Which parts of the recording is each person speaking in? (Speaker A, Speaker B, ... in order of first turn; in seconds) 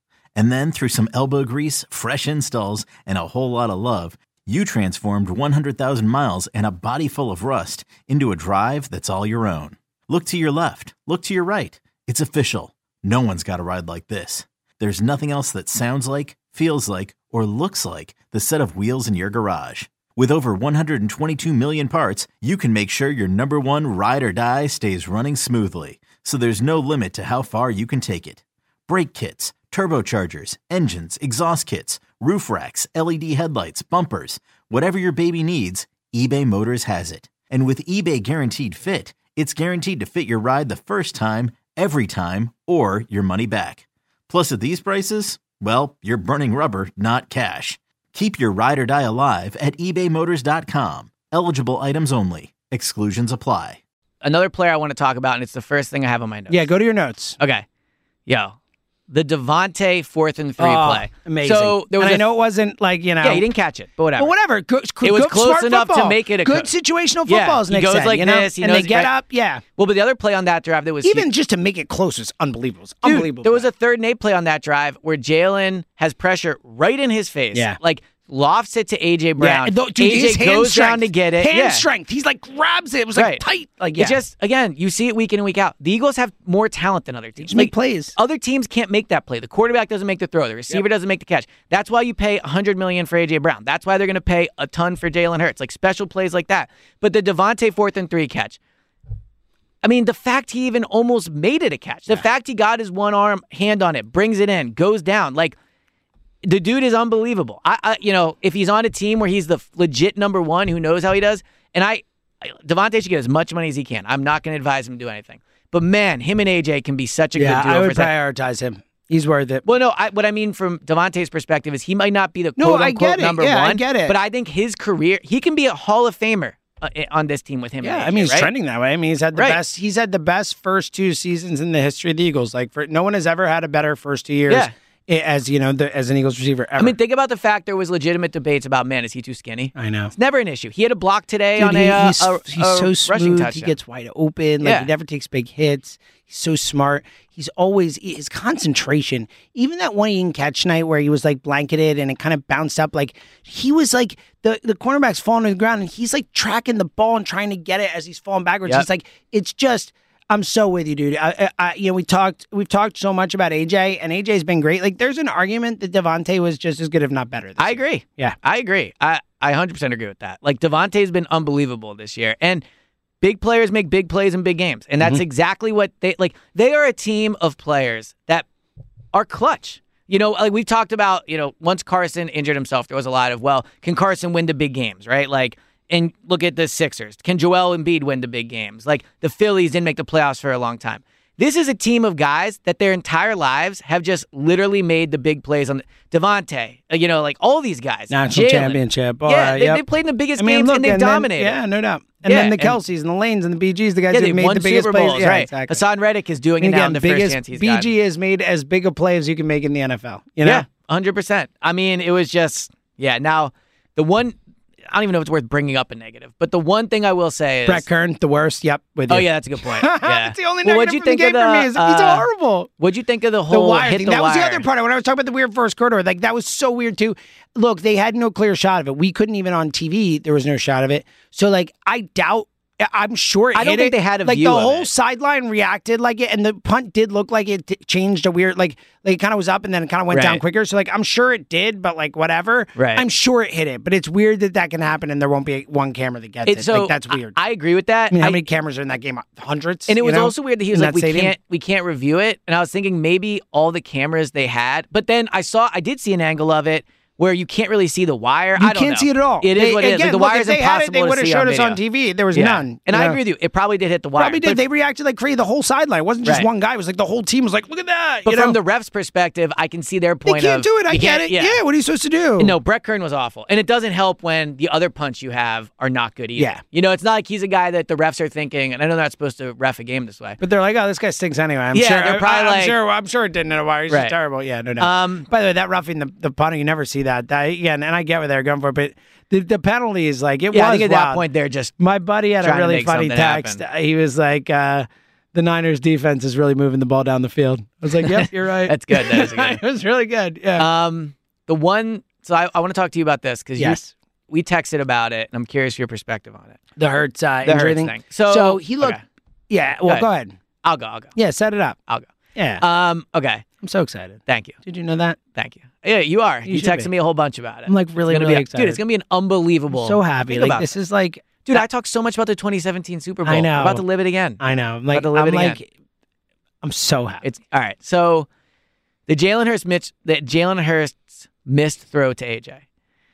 Speaker A: 0.3-53.8
Speaker B: 54.2-56.7, 57.4-57.6, 58.3-58.5, 59.1-62.2, 63.2-64.3, 65.0-66.7, 67.2-69.1, 69.8-71.3, 73.0-81.8, 83.1-83.4, 84.0-98.6, 99.8-105.6, 106.4-118.1, 119.6-128.5, 134.5-134.7, 136.8-143.7, 144.6-144.9, 167.6-172.6, 173.2-178.4, 179.1-201.6, 202.2-202.8, 204.1-207.9, 210.4-214.4, 214.9-217.8, 219.1-222.2, 222.8-224.7, 233.5-234.9, 240.1-240.4, 242.7-243.0, 246.5-248.4, 249.9-261.8, 262.3-264.6, 266.2-266.5, 268.2-271.6, 272.4-280.4, 281.7-282.8, 283.9-284.1, 284.8-285.3, 290.5-291.7, 292.4-293.6, 298.0-299.6, 300.6-306.6, 307.4-309.0, 310.6-311.1, 311.9-313.4, 314.3-314.5, 315.3-320.7, 321.4-324.4, 324.9-325.6, 327.2-328.3, 329.1-332.6
Speaker C: 56.5-57.4, 60.6-63.5, 64.2-69.6, 71.0-73.7, 79.4-84.2, 87.4-88.1, 117.3-119.6, 122.6-124.1, 127.8-136.9, 139.8-140.1, 141.6-168.3, 198.1-199.8, 200.3-205.8, 206.6-210.7, 217.7-222.7, 223.5-247.4, 248.1-251.3, 258.6-263.2, 264.2-268.6, 270.2-272.6, 276.4-276.6, 280.4-291.2, 291.8-300.7, 303.6-303.9, 306.8-309.0, 309.5-310.4, 311.1-311.8, 312.4-312.6, 313.6-315.2, 316.5-316.9, 317.7-318.8, 319.7-321.6, 323.2-323.8, 324.4-325.6, 326.6-327.2